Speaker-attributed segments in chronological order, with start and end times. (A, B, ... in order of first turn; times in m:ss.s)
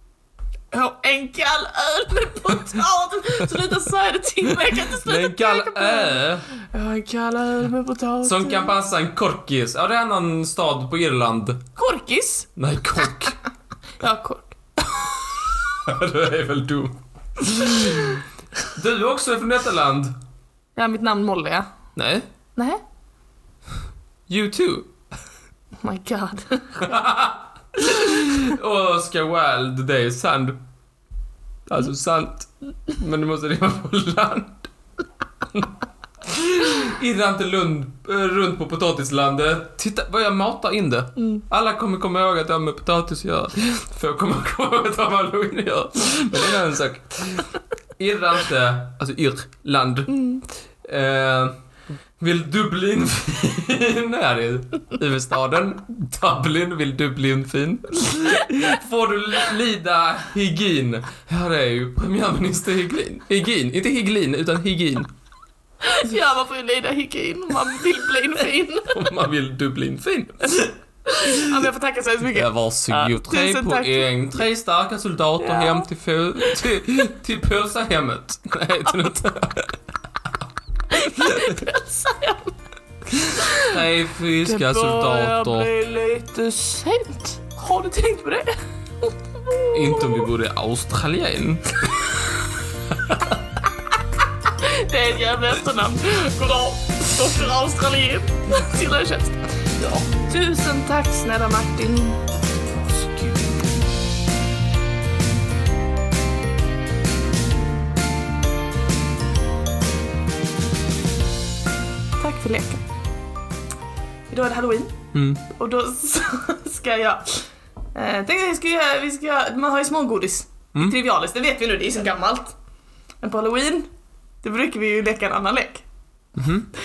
0:00.7-0:08.7 A
0:04.7-0:06.5 B
0:08.2-0:11.6 B
0:11.8-0:12.5 A
0:12.6-0:13.4 B
0:14.0-0:14.6 A
0:15.6-0:20.1 B
0:20.8-0:21.7 A
0:22.0-0:22.3 B
0:24.3-0:24.9 B
0:25.8-0:27.0 A
0:26.8-0:30.6 B
0:31.7-0:34.7 B
0:36.2-0:50.3 B
0:50.1-0:50.4 A
0:50.8-0:51.6 B
0:52.2-1:05.1 B
1:05.8-1:09.0 A
1:08.9-1:11.5 B
1:11.1-1:14.1 A
1:12.3-1:19.8 B
1:15.5-1:15.8 A
1:20.9-1:22.6 A
1:23.2-1:23.8 A
1:23.5-1:25.7 B
1:24.4-1:30.3 A
1:29.7-1:31.9 B
1:32.9-1:33.2 B
1:34.5-1:39.4 A
1:40.1-1:42.2 A
1:52.2-1:52.8 A
1:54.3-2:02.5 A
1:55.1-1:55.4 B
2:03.2-2:03.9 A
2:04.4-2:05.8 A
2:06.4-2:06.7 B